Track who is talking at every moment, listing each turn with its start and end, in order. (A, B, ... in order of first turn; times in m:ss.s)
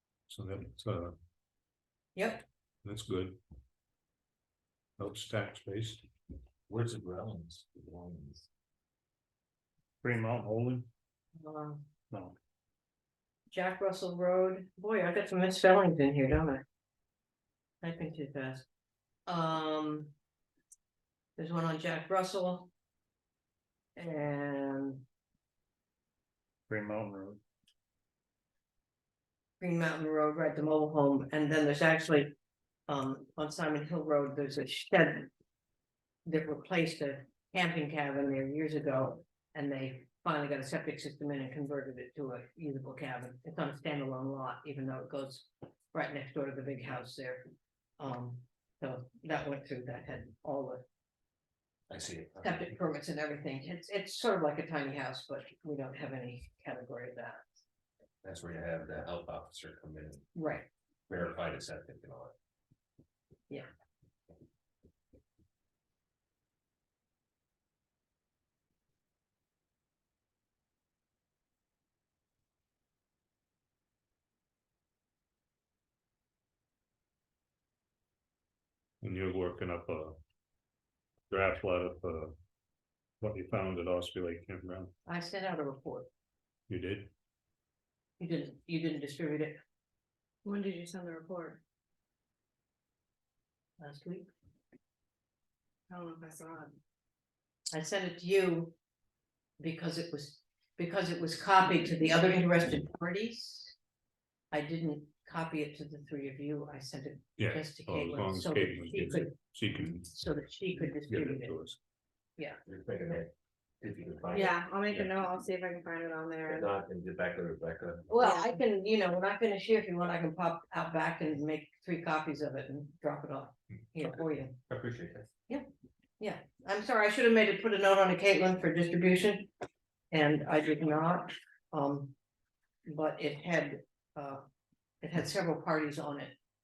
0:00.3-0:01.2 A
0:02.2-0:02.4 B
0:02.8-0:03.4 A
0:05.0-0:06.0 A
0:06.7-0:08.5 C
0:10.0-0:10.9 D
0:11.4-0:11.8 B
0:12.1-0:12.4 D
0:13.5-0:16.6 B
0:17.8-0:18.6 B
0:19.3-0:20.1 B
0:21.4-0:22.7 B
0:24.0-0:25.0 B
0:26.7-0:27.4 D
0:29.6-0:32.3 B
0:32.9-0:35.3 B
0:36.2-0:47.4 B
0:48.0-0:50.8 B
0:51.9-0:52.6 C
0:52.4-0:57.4 B
0:58.2-1:00.3 C
1:00.3-1:00.7 B
1:01.1-1:02.3 C
1:19.0-1:20.2 A
1:21.3-1:22.4 A
1:23.2-1:24.9 A
1:25.1-1:26.1 B
1:26.7-1:27.1 A
1:28.2-1:29.6 B
1:30.4-1:31.6 E
1:33.8-1:34.3 B
1:35.9-1:36.8 E
1:37.7-1:38.7 B
1:39.6-1:43.8 B
1:44.5-1:49.4 B
1:47.4-1:50.1 A
1:50.1-1:51.5 B
1:51.1-1:51.8 A
1:52.4-1:53.2 B
1:52.6-1:53.3 C
1:53.8-1:54.6 C
1:54.3-1:56.6 E
1:56.5-1:58.1 C
1:58.1-2:04.6 B
1:58.2-1:58.6 E
2:04.7-2:05.3 C
2:06.2-2:09.5 B
2:10.1-2:12.1 B
2:12.8-2:14.4 B
2:15.0-2:16.3 B